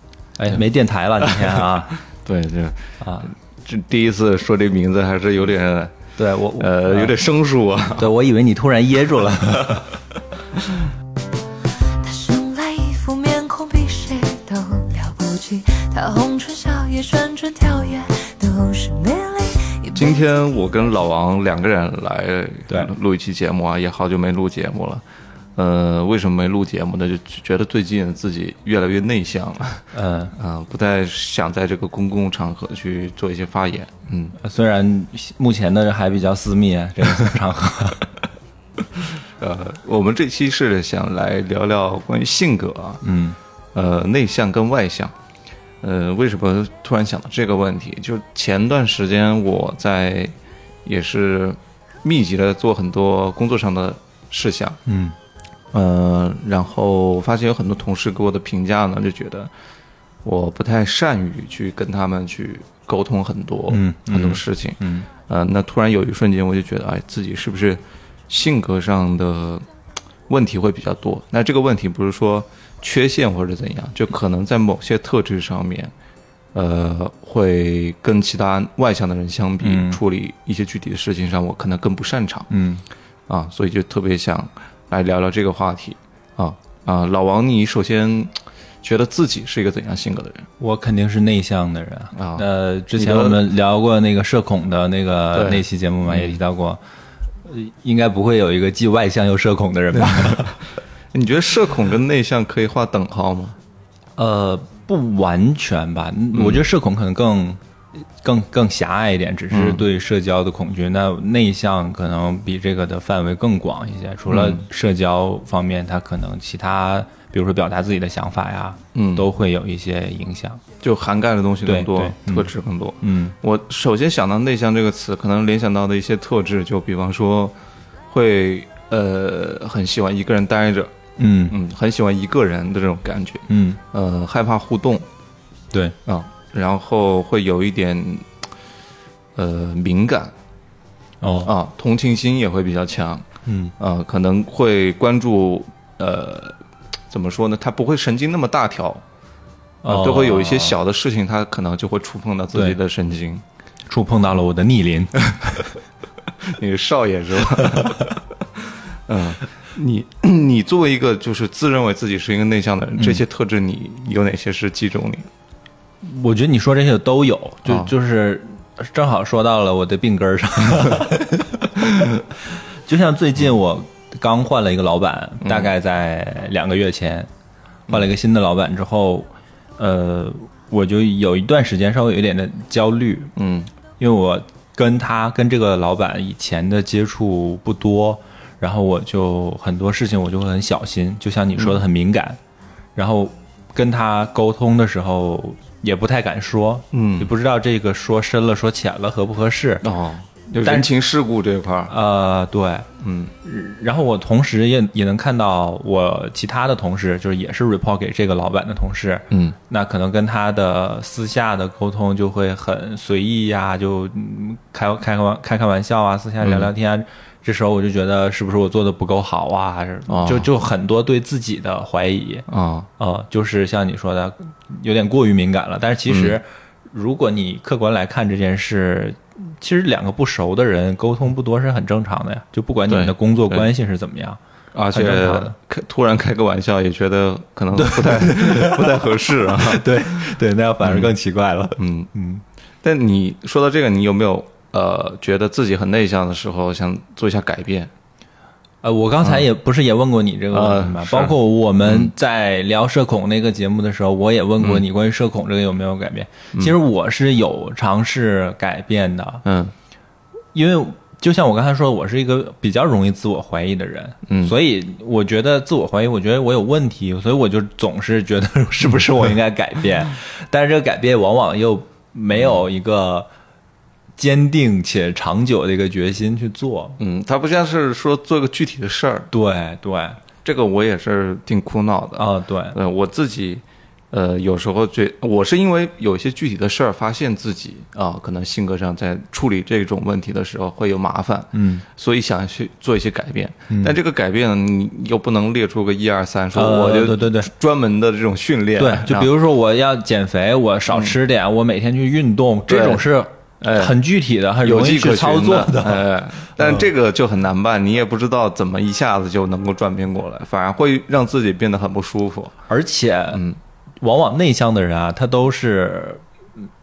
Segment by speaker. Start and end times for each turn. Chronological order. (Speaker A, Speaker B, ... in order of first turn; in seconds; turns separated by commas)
Speaker A: 0.4-2.0, Speaker B: 1.2-3.0, Speaker A: 3.0-3.3, Speaker B: 3.6-8.1, Speaker A: 6.2-7.2, Speaker A: 8.0-9.9, Speaker C: 12.0-20.2, Speaker B: 19.9-25.0, Speaker B: 25.6-34.4, Speaker A: 29.9-30.4, Speaker A: 34.4-38.1, Speaker B: 39.0-43.0, Speaker A: 43.0-43.4, Speaker B: 43.7-45.1, Speaker B: 45.8-50.3, Speaker B: 50.9-54.8, Speaker A: 54.9-55.2, Speaker B: 55.7-59.5, Speaker B: 60.2-69.7, Speaker A: 63.7-65.1, Speaker B: 70.3-75.9, Speaker B: 76.5-82.5, Speaker A: 79.6-80.0, Speaker A: 82.5-82.8, Speaker B: 83.3-90.5, Speaker A: 90.6-96.8, Speaker B: 92.2-93.4, Speaker B: 95.3-96.4, Speaker A: 97.5-100.5, Speaker B: 99.9-100.6, Speaker B: 101.1-103.6, Speaker A: 104.2-107.6, Speaker B: 106.3-106.7, Speaker A: 108.2-120.6, Speaker B: 109.5-109.9, Speaker B: 114.3-114.7, Speaker B: 118.9-119.3, Speaker B: 120.8-127.6, Speaker A: 121.7-123.3, Speaker B: 128.1-130.9, Speaker A: 131.2-131.6, Speaker B: 131.5-135.1, Speaker A: 133.5-133.8, Speaker B: 136.1-138.3, Speaker B: 139.4-140.3, Speaker A: 141.2-141.5, Speaker B: 141.4-143.3, Speaker A: 143.5-143.7, Speaker B: 143.8-146.6, Speaker B: 147.1-149.0, Speaker A: 149.8-150.8, Speaker B: 149.8-153.4, Speaker A: 153.9-155.8, Speaker B: 156.4-165.3, Speaker A: 166.0-171.8, Speaker B: 167.7-167.9, Speaker A: 172.9-177.3, Speaker B: 175.4-175.7, Speaker A: 177.9-183.3, Speaker B: 183.4-183.7, Speaker A: 184.0-192.4, Speaker B: 191.6-191.8, Speaker A: 192.9-199.9, Speaker B: 196.9-197.3, Speaker B: 199.8-201.9, Speaker A: 200.6-200.9, Speaker A: 201.9-202.9, Speaker B: 203.0-203.3, Speaker A: 203.4-222.5, Speaker B: 209.3-209.6, Speaker B: 216.4-216.7, Speaker B: 220.1-220.5, Speaker B: 222.5-222.9, Speaker A: 223.0-234.4, Speaker B: 226.1-226.4, Speaker B: 232.9-233.7, Speaker B: 234.7-241.1, Speaker A: 234.9-235.6, Speaker A: 237.8-242.4, Speaker B: 241.8-242.1, Speaker B: 242.8-247.9, Speaker A: 248.8-259.4, Speaker B: 250.5-252.1, Speaker B: 259.4-259.7, Speaker A: 260.5-273.3, Speaker B: 264.3-264.6, Speaker B: 272.4-272.6, Speaker A: 274.2-277.0, Speaker B: 277.0-279.3, Speaker A: 279.3-280.2, Speaker B: 280.4-299.3, Speaker A: 282.2-282.8, Speaker A: 291.5-291.8, Speaker A: 293.7-293.9, Speaker A: 296.6-297.5, Speaker A: 298.8-306.9, Speaker B: 300.9-301.2, Speaker B: 302.7-303.1, Speaker B: 303.6-304.0, Speaker B: 304.6-312.6, Speaker A: 312.7-313.4, Speaker B: 313.3-313.6, Speaker A: 314.0-316.2